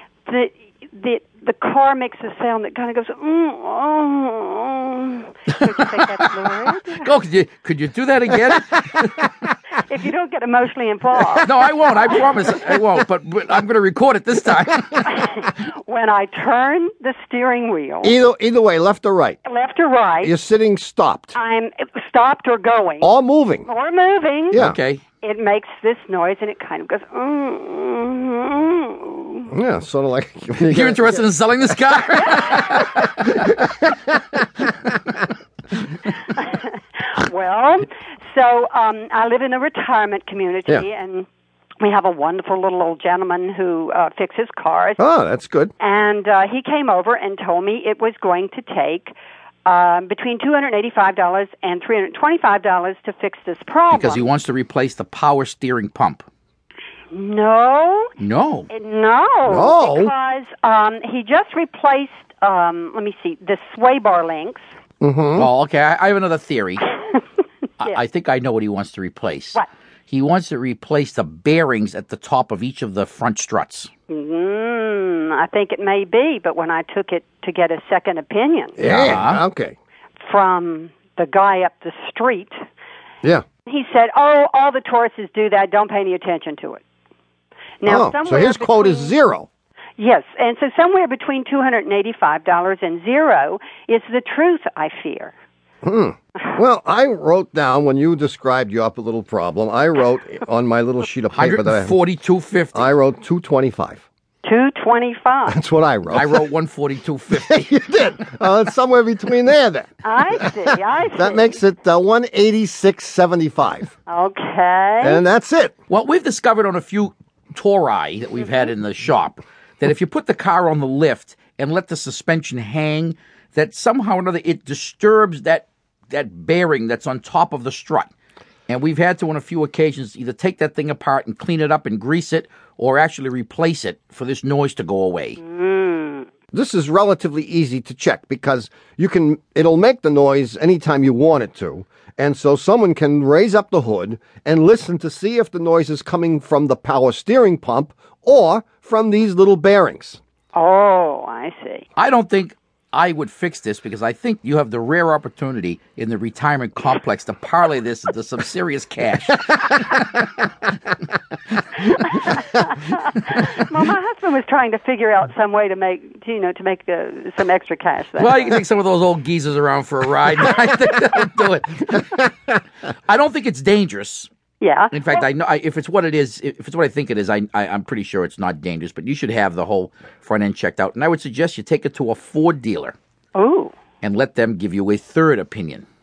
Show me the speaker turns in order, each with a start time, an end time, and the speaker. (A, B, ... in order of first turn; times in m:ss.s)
0:00.3-0:07.1 A
0:05.7-0:05.9 B
0:07.0-0:09.3 B
0:09.8-0:12.2 A
0:11.4-0:15.2 B
0:15.1-0:18.2 A
0:18.0-0:19.4 C
0:19.4-0:20.3 A
0:20.2-0:21.4 C
0:21.4-0:23.1 A
0:23.0-0:23.7 C
0:23.7-0:24.6 A
0:24.5-0:24.8 C
0:24.6-0:25.0 B
0:25.2-0:29.5 A
0:29.5-0:31.2 C
0:30.7-0:33.3 B
0:32.4-0:32.8 A
0:33.0-0:34.4 C
0:36.3-0:41.3 A
0:41.8-0:45.0 A
0:45.0-0:45.7 C
0:45.8-0:49.1 A
0:49.7-0:54.3 A
0:53.9-0:56.3 B
0:57.1-0:58.1 A
0:58.2-0:58.7 B
0:58.7-1:04.6 A
0:59.5-1:00.1 C
1:05.0-1:05.5 C
1:05.4-1:06.9 B
1:07.8-1:13.9 B
1:14.1-1:18.9 A
1:18.8-1:19.8 C
1:18.8-1:19.4 B
1:20.2-1:22.6 A
1:23.7-1:26.8 A
1:27.8-1:29.1 A
1:27.9-1:29.5 C
1:30.0-1:35.3 A
1:35.8-1:42.0 C
1:41.3-1:42.9 B
1:42.7-1:44.0 C
1:44.4-1:45.6 A
1:45.5-1:46.5 C
1:46.1-1:47.6 B
1:47.3-1:54.0 C
1:50.0-1:51.6 A
1:54.1-1:55.2 A
1:55.0-1:55.7 C
1:55.9-2:08.1 B
2:08.7-2:15.4 B
2:15.4-2:16.3 A
2:16.5-2:30.2 C
2:30.5-2:31.9 A
2:32.0-2:40.4 B
2:42.0-2:48.6 A
2:48.2-2:54.3 B
2:54.6-2:55.2 A
2:54.9-3:03.0 B
3:03.4-3:03.7 A
3:04.0-3:05.9 B